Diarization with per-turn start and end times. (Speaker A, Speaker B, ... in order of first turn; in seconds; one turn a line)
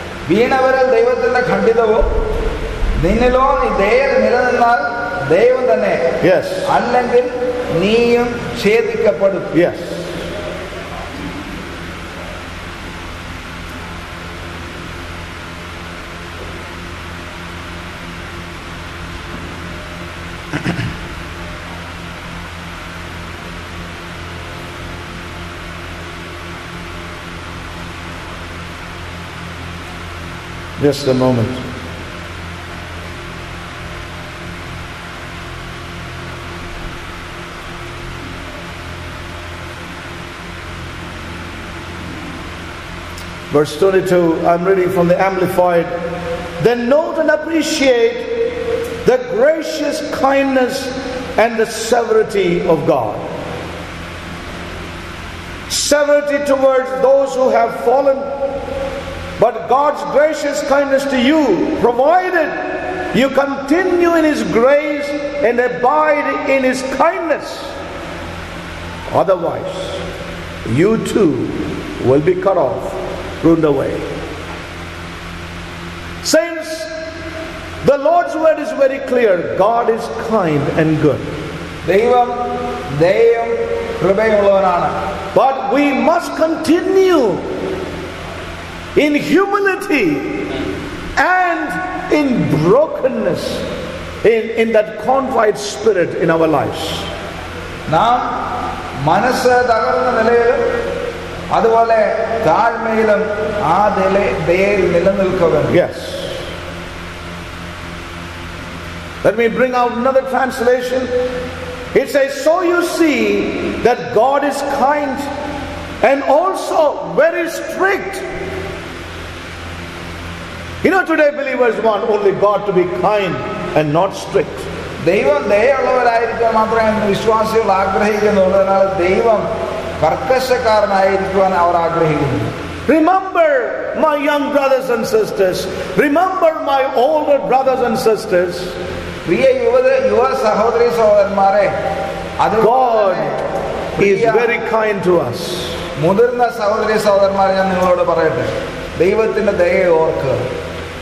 Speaker A: 0.3-2.1
Speaker A: 3.0-6.1
Speaker B: 6.2-6.7
Speaker A: 6.7-9.5
Speaker B: 9.5-10.1
Speaker B: 30.8-31.6
Speaker B: 43.5-45.9
Speaker B: 46.6-53.2
Speaker B: 55.7-58.3
Speaker B: 59.4-67.7
Speaker B: 69.1-70.0
Speaker B: 70.6-74.0
Speaker B: 76.2-77.1
Speaker B: 77.8-81.3
Speaker A: 81.8-85.0
Speaker B: 85.3-87.5
Speaker B: 88.9-90.4
Speaker B: 91.2-93.6
Speaker B: 94.2-97.1
Speaker A: 97.9-100.8
Speaker A: 101.5-105.8
Speaker B: 105.7-106.4
Speaker B: 109.2-111.1
Speaker B: 111.9-115.3
Speaker B: 116.0-118.2
Speaker B: 120.8-124.7
Speaker A: 125.0-129.5
Speaker A: 130.0-132.5
Speaker B: 132.9-138.8
Speaker A: 139.2-141.7
Speaker A: 142.4-143.4
Speaker B: 142.6-143.3
Speaker A: 144.0-144.5
Speaker B: 144.0-145.8
Speaker A: 146.0-150.4